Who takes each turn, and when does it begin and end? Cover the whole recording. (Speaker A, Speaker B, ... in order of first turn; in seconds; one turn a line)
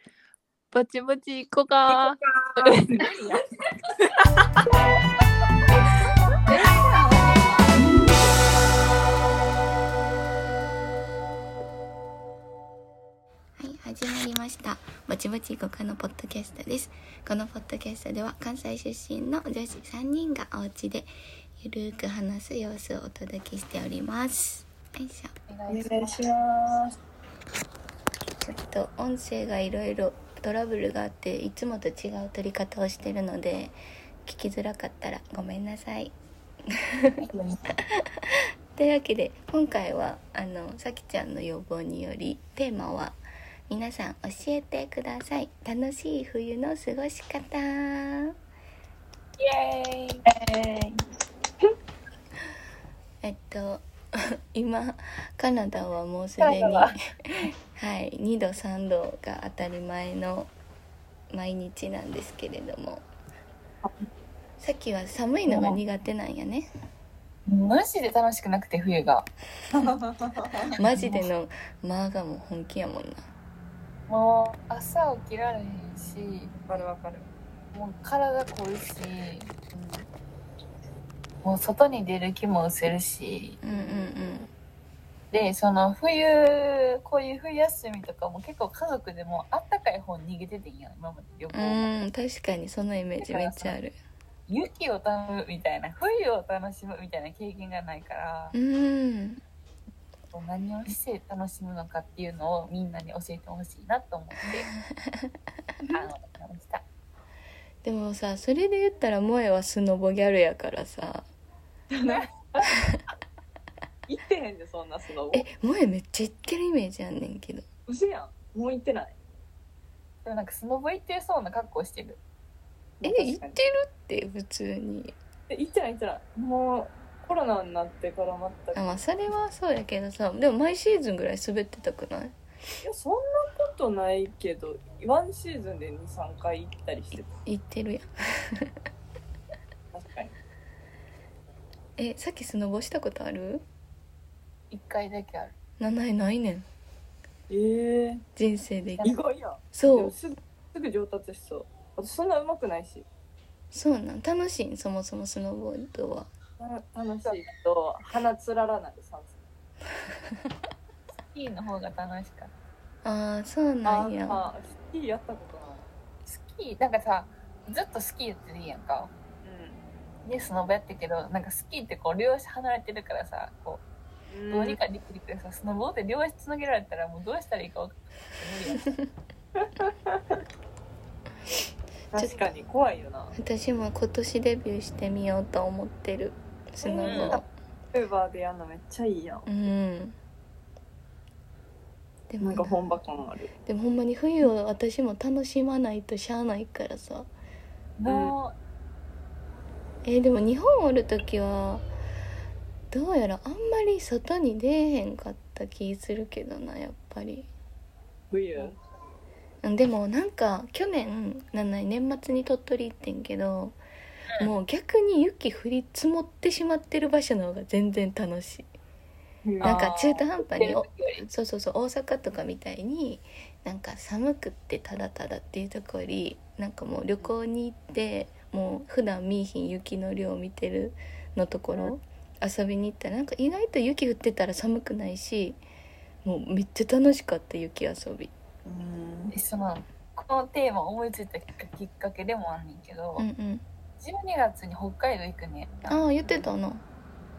Speaker A: 0.7-3.1
Speaker B: 1.9-3.4
Speaker C: 3.0-3.4
Speaker B: 6.5-7.9
Speaker D: 13.6-25.3
Speaker C: 25.5-25.9
Speaker B: 25.7-27.0
Speaker D: 28.5-36.1
Speaker D: 36.7-37.1
Speaker B: 37.2-37.6
Speaker D: 38.8-43.2
Speaker D: 43.7-48.3
Speaker C: 49.4-51.0
Speaker D: 53.2-53.9
Speaker D: 54.5-60.5
Speaker C: 56.4-57.5
Speaker D: 61.3-63.0
Speaker D: 64.6-66.7
Speaker C: 65.5-65.8
Speaker C: 67.5-69.3
Speaker B: 69.7-70.7
Speaker D: 70.8-73.2
Speaker C: 70.8-71.3
Speaker C: 74.1-76.5
Speaker B: 76.5-77.3
Speaker C: 77.7-79.7
Speaker B: 79.8-80.1
Speaker C: 81.4-83.6
Speaker D: 83.6-84.5
Speaker B: 83.7-84.4
Speaker C: 85.3-92.0
Speaker D: 91.5-94.0
Speaker C: 93.2-93.8
Speaker C: 94.5-98.6
Speaker D: 98.5-99.4
Speaker C: 100.3-104.7
Speaker C: 105.9-106.8
Speaker D: 107.8-111.3
Speaker B: 111.9-112.8
Speaker B: 114.1-115.5
Speaker D: 115.3-117.6
Speaker B: 117.9-119.2
Speaker C: 120.2-122.2
Speaker B: 123.0-123.6
Speaker D: 123.0-125.2
Speaker B: 125.5-129.1
Speaker D: 128.7-132.3
Speaker B: 132.8-137.3
Speaker D: 137.4-138.7
Speaker B: 139.9-140.3
Speaker D: 142.0-143.7
Speaker C: 144.7-145.5
Speaker D: 145.8-146.7
Speaker B: 147.5-148.2
Speaker D: 148.4-149.1
Speaker B: 149.0-153.1
Speaker D: 149.7-150.2
Speaker D: 153.7-156.3
Speaker B: 156.6-159.4
Speaker C: 161.3-162.5
Speaker D: 163.0-164.4
Speaker B: 163.8-165.9
Speaker C: 166.3-169.1
Speaker B: 169.4-169.8
Speaker C: 170.3-173.8
Speaker B: 174.3-174.8
Speaker C: 174.5-179.0
Speaker B: 179.6-180.4
Speaker B: 182.1-183.3
Speaker D: 182.2-182.4
Speaker D: 183.4-187.4
Speaker B: 186.8-189.7
Speaker C: 187.0-187.4
Speaker D: 189.5-190.1
Speaker D: 192.3-192.9
Speaker B: 192.4-193.5
Speaker D: 193.7-197.3
Speaker C: 198.0-198.6
Speaker B: 198.1-198.3
Speaker D: 200.0-201.9
Speaker D: 202.9-207.5
Speaker B: 208.3-208.8
Speaker D: 209.6-213.8
Speaker D: 214.4-218.7
Speaker B: 219.5-220.2
Speaker D: 219.6-235.6
Speaker C: 220.4-221.3
Speaker D: 236.2-238.3
Speaker B: 238.7-239.3
Speaker C: 239.3-243.3
Speaker D: 243.2-243.6
Speaker C: 244.0-246.2
Speaker D: 245.9-246.8
Speaker B: 246.2-246.5